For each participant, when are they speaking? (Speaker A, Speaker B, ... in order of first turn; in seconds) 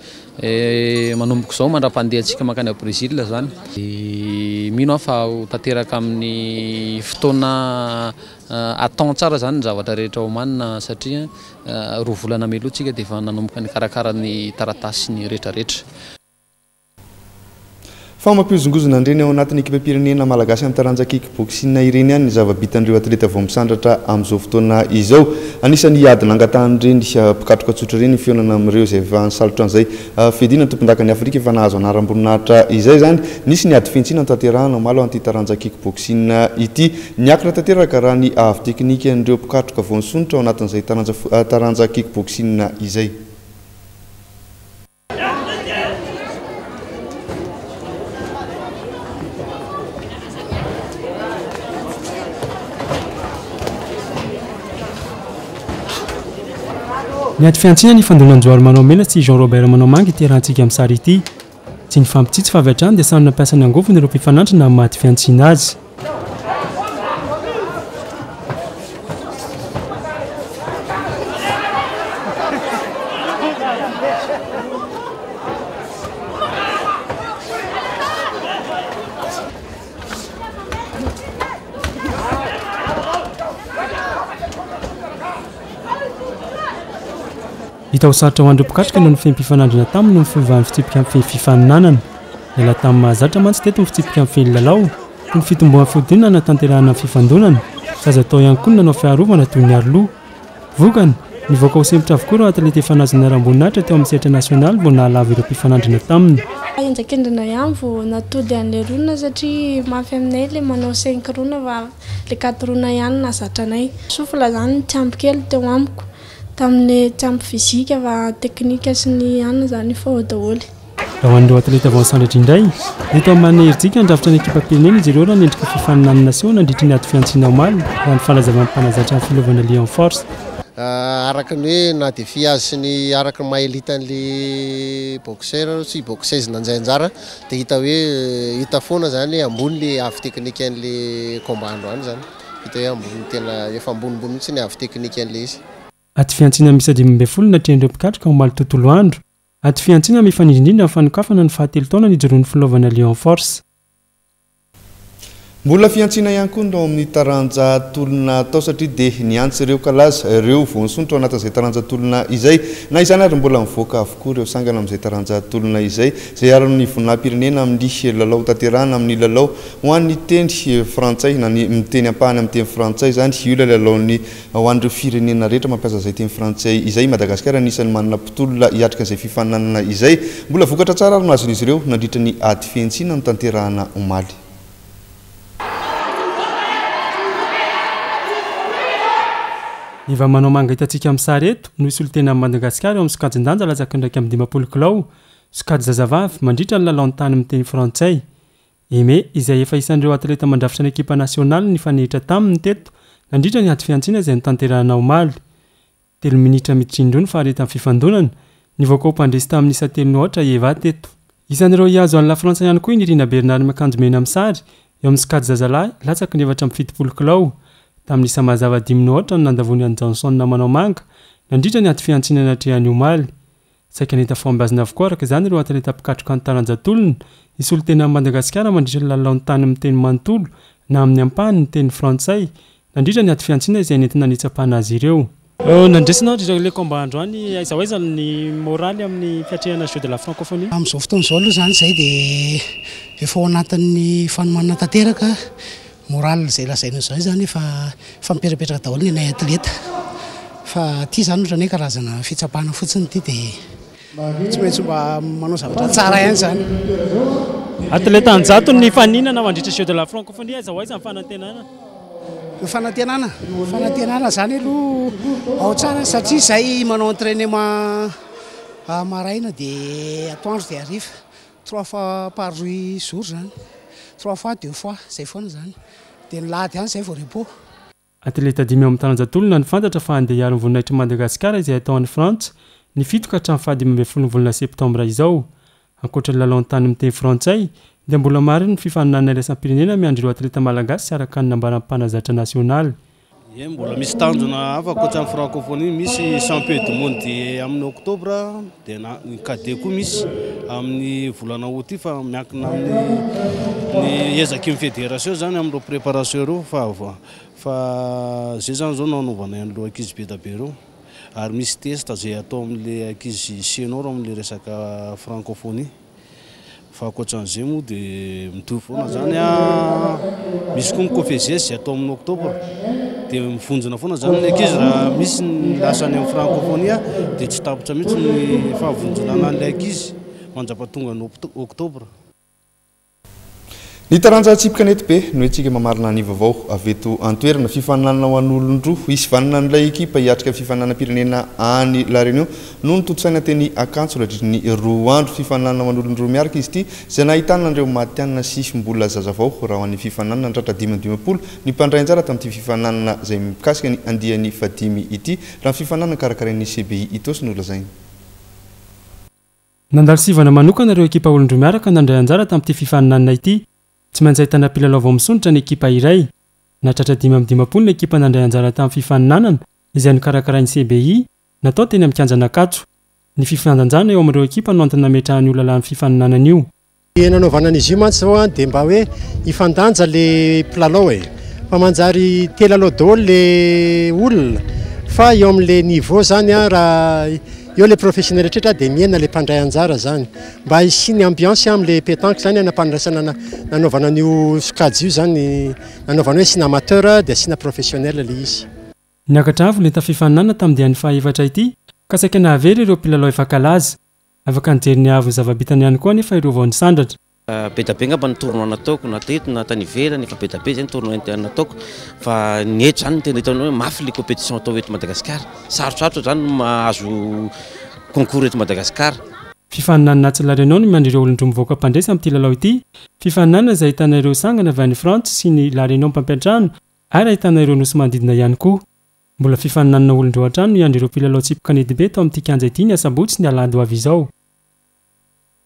Speaker A: 0.4-15.8
Speaker B: 18.2-43.2, 155.6-184.4, 334.1-357.9
Speaker C: 57.4-61.2, 61.9-65.8, 87.9-92.0, 92.5-100.1, 100.8-106.4, 121.2-130.2, 146.2-153.6, 190.1-198.2, 198.9-205.4, 206.2-217.5, 218.1-223.3, 223.9-240.7, 257.9-261.7, 278.2-285.5, 286.0-292.9, 359.9-366.3, 366.8-372.8, 373.4-376.7, 399.3-407.1, 419.7-428.8, 429.4-434.3
Speaker D: 106.8-120.7
Speaker E: 130.8-145.6
Speaker F: 240.7-242.7, 243.2-245.3, 246.1-249.7, 250.7-253.6, 254.5-256.8, 262.6-268.1, 268.9-273.5, 274.2-275.7, 276.3-277.5
Speaker G: 293.6-310.7, 311.4-315.9, 316.9-322.6, 323.3-332.1
Speaker H: 377.2-398.6
Speaker I: 407.5-417.5, 418.1-419.2